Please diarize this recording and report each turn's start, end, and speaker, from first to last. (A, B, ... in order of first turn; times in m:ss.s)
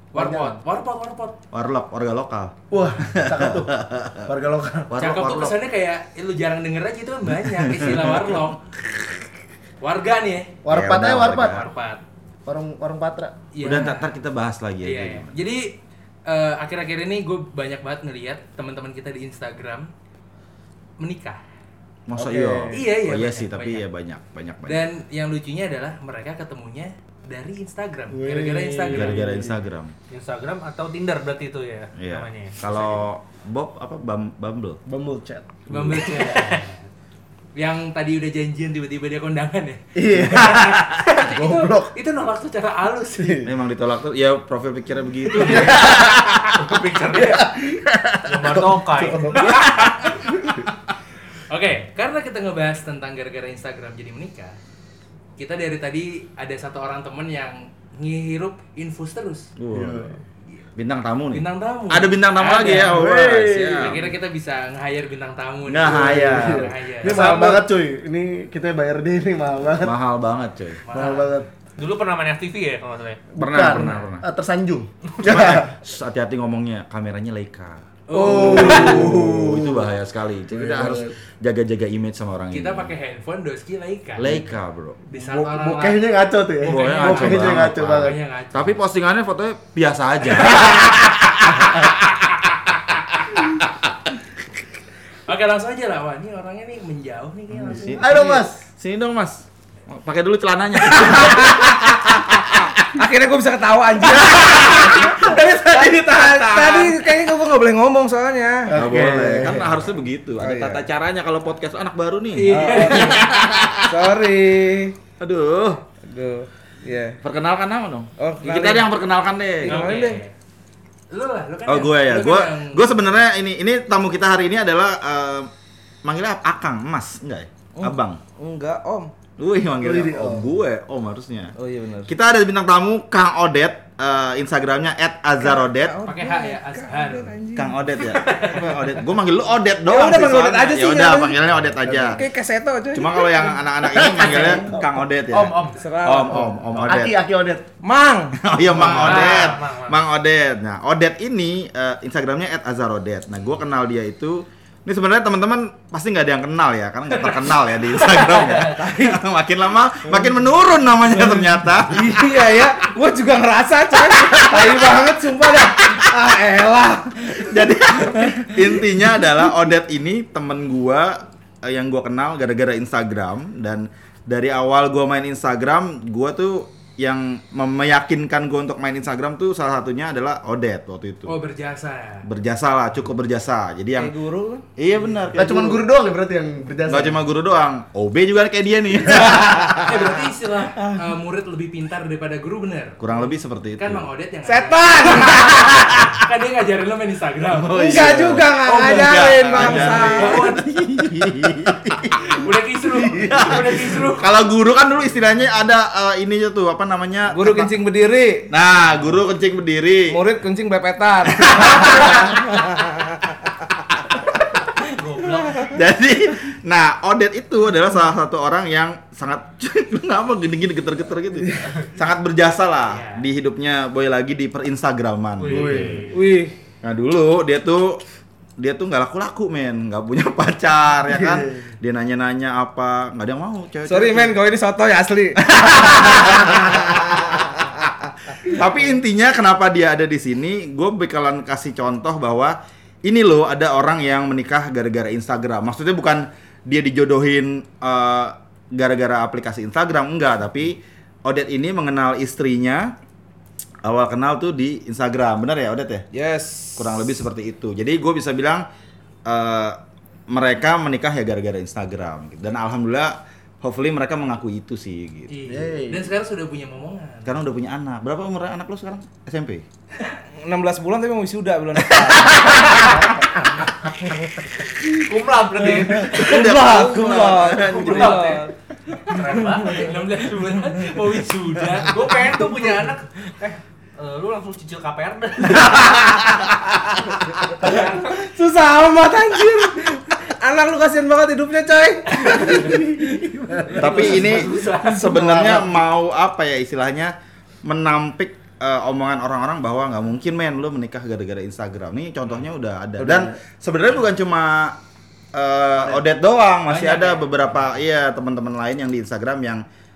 0:00.1-0:00.6 A
0:00.1-0:01.4 B
0:01.5-0:04.3 C
0:02.7-0:05.2 A
0:04.9-0:05.6 C
0:05.0-0:08.6 B
0:07.4-0:08.5 C
0:09.8-0:10.6 B
0:10.6-0:11.7 A
0:10.7-0:11.7 C
0:11.4-0:12.0 B
0:12.5-0:13.4 A
0:13.5-0:14.2 B
0:13.6-0:15.3 C
0:14.8-0:19.9 B
0:21.0-0:21.4 B
0:22.1-0:24.8 C
0:22.2-0:22.8 A
0:22.7-0:23.9 B
0:24.6-0:29.3 B
0:28.1-0:29.6 A
0:28.9-0:29.9 C
0:30.1-0:33.0 D
0:32.0-0:34.8 C
0:34.9-0:36.5 A
0:35.7-0:36.9 B
0:35.7-0:36.2 C
0:37.6-0:43.4 B
0:40.0-0:41.9 A
0:40.3-0:40.6 C
0:43.2-0:43.5 A
0:43.4-0:46.6 C
0:45.4-0:45.8 B
0:45.5-0:46.0 A
0:45.8-0:47.5 D
0:47.1-0:47.8 A
0:48.2-0:50.1 D
0:48.4-0:49.6 A
0:49.6-0:50.0 B
0:50.3-0:50.6 A
0:51.5-0:54.6 B
0:55.4-0:59.5 B
0:59.6-1:00.2 C
0:59.7-1:00.2 A
1:00.8-1:04.0 C
1:01.3-1:03.1 B
1:02.9-1:04.0 A
1:03.7-1:07.6 B
1:05.7-1:07.5 C
1:05.8-1:10.0 A
1:09.8-1:10.8 C
1:10.9-1:11.4 B
1:10.9-1:11.5 A
1:11.8-1:13.2 D
1:13.4-1:15.8 A
1:13.4-1:14.2 C
1:15.2-1:22.9 C
1:18.1-1:19.2 B
1:18.1-1:19.9 A
1:20.5-1:21.1 A
1:22.5-1:24.4 B
1:24.2-1:25.0 C
1:25.1-1:26.0 B
1:25.1-1:28.2 A
1:26.6-1:32.4 C
1:26.6-1:28.8 B
1:33.4-1:33.9 C
1:35.3-1:38.4 B
1:37.6-1:43.0 C
1:37.7-1:38.6 A
1:41.0-1:41.7 E
1:42.9-1:49.2 E
1:44.2-1:46.9 C
1:48.7-1:49.8 A
1:48.7-1:54.0 C
1:50.4-1:50.8 E
1:52.4-1:53.4 B
1:52.5-1:53.2 E
1:53.9-1:55.0 E
1:55.2-1:55.8 C
1:56.0-1:57.2 E
1:57.2-2:00.0 C
1:58.2-1:58.9 E
1:59.6-2:00.2 E
1:59.6-2:00.3 B
2:01.1-2:03.0 B
2:01.7-2:05.5 C
2:06.0-2:08.2 C
2:07.8-2:09.1 E
2:09.4-2:11.5 C
2:09.8-2:10.5 A
2:11.6-2:12.1 E
2:12.1-2:16.0 C
2:15.4-2:17.8 E
2:16.0-2:17.3 B
2:17.6-2:22.3 C
2:18.0-2:19.0 B
2:19.9-2:21.4 E
2:22.0-2:23.4 E
2:22.9-2:27.2 C
2:23.8-2:25.1 A
2:25.3-2:25.8 D
2:25.8-2:26.7 E
2:26.8-2:27.7 A
2:27.8-2:28.4 E
2:28.4-2:42.7 C
2:28.8-2:29.5 B
2:28.8-2:30.0 D
2:38.2-2:39.1 B
2:41.9-2:47.5 E
2:44.1-2:46.1 C
2:47.3-3:01.4 C
2:48.2-2:48.6 E
3:01.3-3:02.3 B
3:02.2-3:04.1 C
3:04.0-3:04.6 E
3:04.8-3:05.9 C
3:05.3-3:07.2 A
3:06.9-3:10.2 C
3:09.8-3:20.8 B
3:13.0-3:14.1 C
3:14.4-3:15.6 E
3:15.4-3:16.1 C
3:17.5-3:22.5 C
3:17.8-3:20.5 E
3:21.1-3:21.9 A
3:22.1-3:24.3 B
3:23.0-3:23.4 A
3:23.1-3:27.7 C
3:27.3-3:28.5 E
3:28.5-3:30.2 C
3:30.1-3:33.3 E
3:31.3-3:32.4 C
3:34.8-3:35.7 B
3:35.6-3:46.1 C
3:45.4-3:46.2 D
3:45.4-3:46.1 A
3:46.1-3:46.6 E
3:46.8-3:48.0 C
3:48.6-3:54.4 C
3:51.1-3:51.7 A
3:53.9-3:57.0 E
3:55.4-3:57.4 C
3:58.4-4:13.0 C
4:13.8-4:16.1 C
4:16.1-4:16.9 E
4:16.8-4:18.6 C
4:19.3-4:19.8 C
4:20.3-4:25.4 C
4:25.3-4:27.4 B
4:25.5-4:26.1 E
4:27.2-4:29.6 C
4:30.4-4:33.0 E
4:34.8-4:36.3 D
4:36.0-4:38.3 C
4:36.1-4:38.5 E
4:37.7-4:38.5 D
4:39.0-4:40.2 D
4:39.4-4:42.0 B
4:41.7-4:46.0 D
4:45.6-4:46.6 C
4:47.6-4:53.1 E
4:47.6-4:48.1 D
4:53.8-5:04.8 C
4:53.8-4:55.0 B
4:53.8-4:54.6 D
4:55.0-4:55.8 A
5:03.0-5:03.4 A
5:05.3-5:09.6 C
5:06.7-5:07.4 B